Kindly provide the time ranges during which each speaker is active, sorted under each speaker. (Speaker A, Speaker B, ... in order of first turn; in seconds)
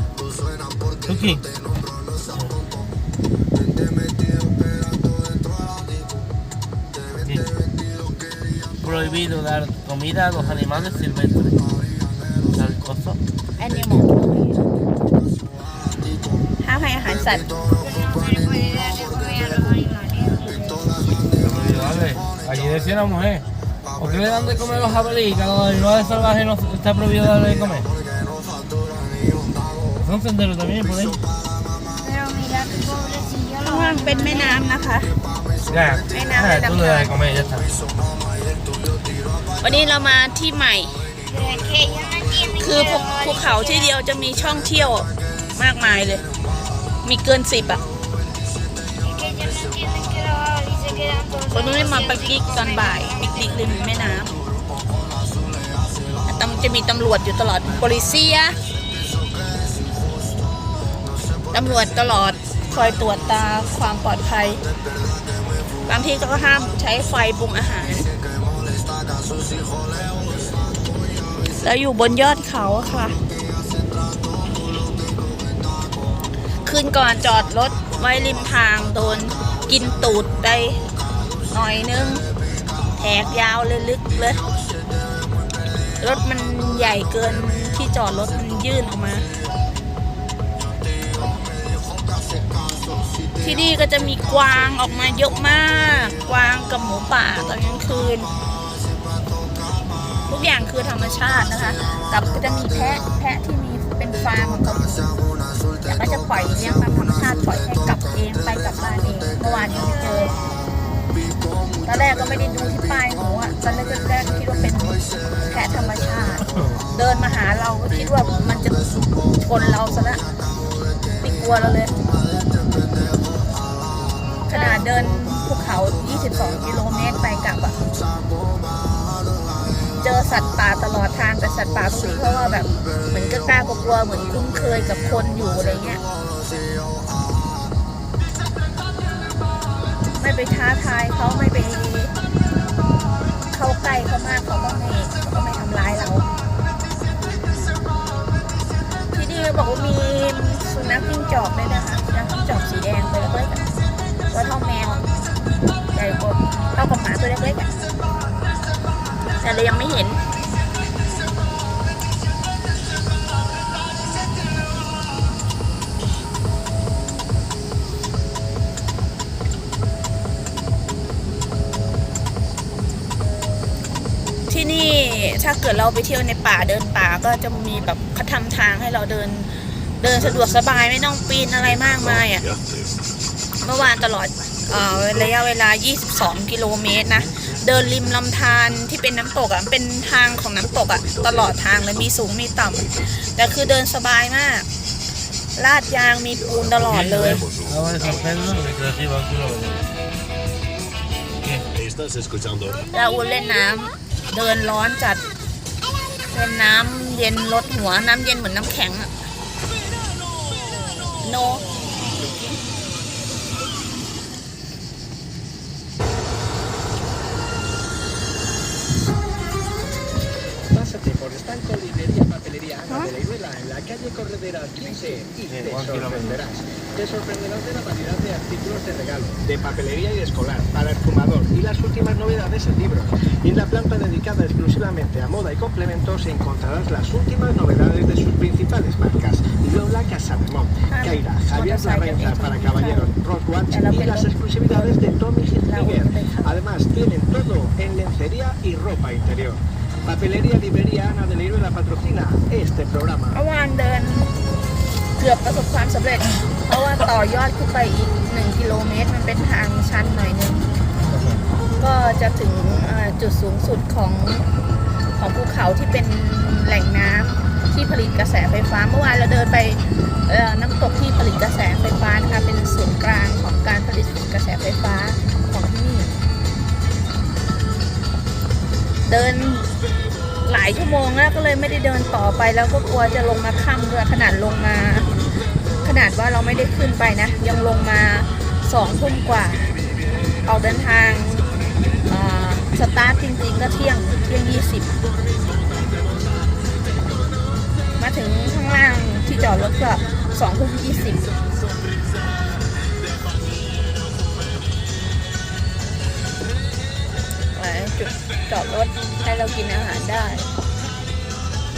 Speaker A: 1.0-1.4, 7.2-7.5, 8.8-11.6, 12.5-13.2, 21.4-23.4, 23.9-27.9, 30.0-31.2, 35.7-37.7, 116.4-116.8, 196.8-199.8, 225.5-226.4, 261.1-261.4
Speaker B: 13.6-14.6, 16.6-17.5, 33.6-35.1, 36.1-37.1, 39.6-41.0, 42.6-46.2, 47.0-47.8, 51.5-54.4, 56.2-58.6, 61.5-64.6, 65.8-68.1, 71.6-73.2, 76.6-80.8, 81.5-82.2, 82.9-84.4, 86.0-89.3, 93.4-98.3, 100.3-105.1, 105.8-110.3, 111.8-118.8, 119.4-120.2, 121.2-121.9, 124.5-127.8, 129.9-136.0, 140.2-142.1, 143.5-146.3, 149.1-153.6, 154.3-155.0, 155.9-157.7, 159.4-160.2, 174.5-182.4, 183.6-194.7, 195.6-197.4, 202.9-205.2, 206.3-209.1, 211.2-211.7, 224.9-225.2, 240.9-243.2, 243.7-246.7, 253.3-254.3, 255.2-260.6, 261.8-264.4, 265.1-276.2, 279.1-279.7, 280.4-285.1, 285.8-289.7, 290.4-291.5, 292.1-294.9, 298.0-301.3, 307.5-310.5
Speaker C: 17.7-21.0, 32.0-34.7, 41.2-43.9, 49.0-53.8, 109.8-110.3, 124.5-124.9
Speaker D: 181.9-182.6, 196.6-198.3, 201.7-202.8
Speaker E: 220.7-253.4